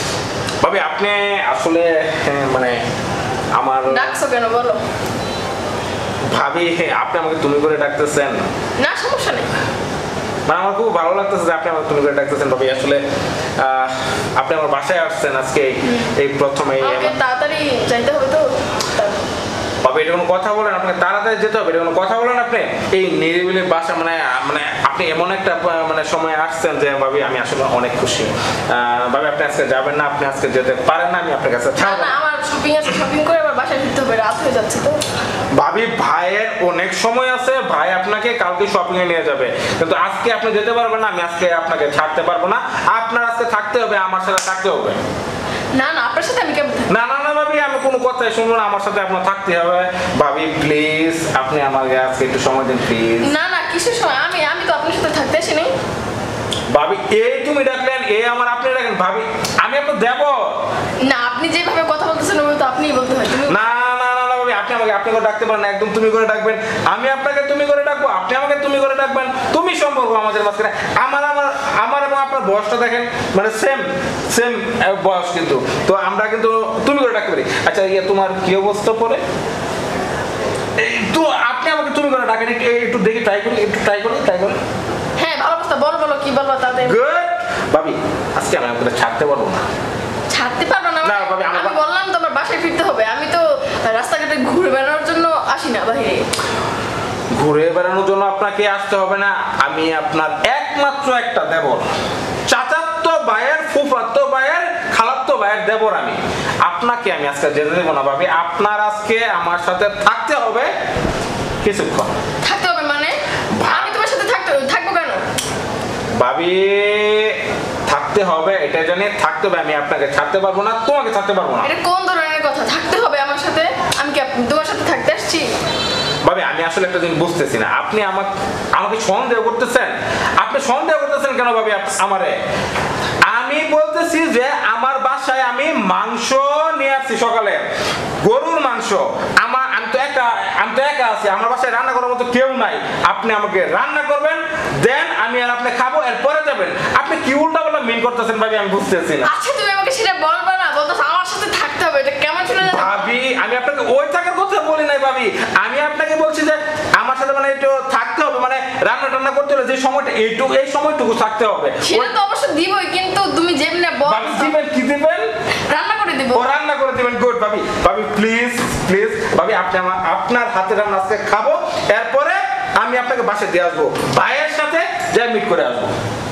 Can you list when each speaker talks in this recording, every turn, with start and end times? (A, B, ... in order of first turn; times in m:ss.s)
0:00.6-0:02.8 A
0:03.5-0:04.2 A
0:03.9-0:04.8 B
0:06.3-0:08.5 A
0:08.8-0:09.5 B
0:10.5-0:13.0 A
0:13.6-0:17.2 A
0:15.8-0:16.1 B
0:16.8-0:19.2 B
0:19.8-0:32.2 A
0:31.8-0:35.0 B
0:35.6-0:45.0 A
0:45.7-0:46.9 B
0:46.9-0:53.3 A
0:53.2-0:55.7 B
0:56.7-1:00.5 A
1:01.0-1:03.6 B
1:03.4-1:19.2 A
1:20.8-1:24.6 A
1:25.2-1:27.0 B
1:26.8-1:29.7 A
1:30.3-1:36.2 B
1:31.0-1:31.8 A
1:37.3-1:41.9 A
1:42.5-1:50.7 A
1:51.6-1:52.1 A
1:52.4-1:55.2 B
1:53.6-1:54.0 A
1:56.2-2:01.7 A
2:01.6-2:05.5 B
2:06.2-2:12.4 A
2:13.2-2:17.7 A
2:18.2-2:29.3 A
2:29.2-2:33.1 B
2:32.6-2:42.1 A
2:41.8-2:44.5 B
2:44.0-2:45.3 A
2:45.7-2:46.5 B
2:46.3-2:55.9 A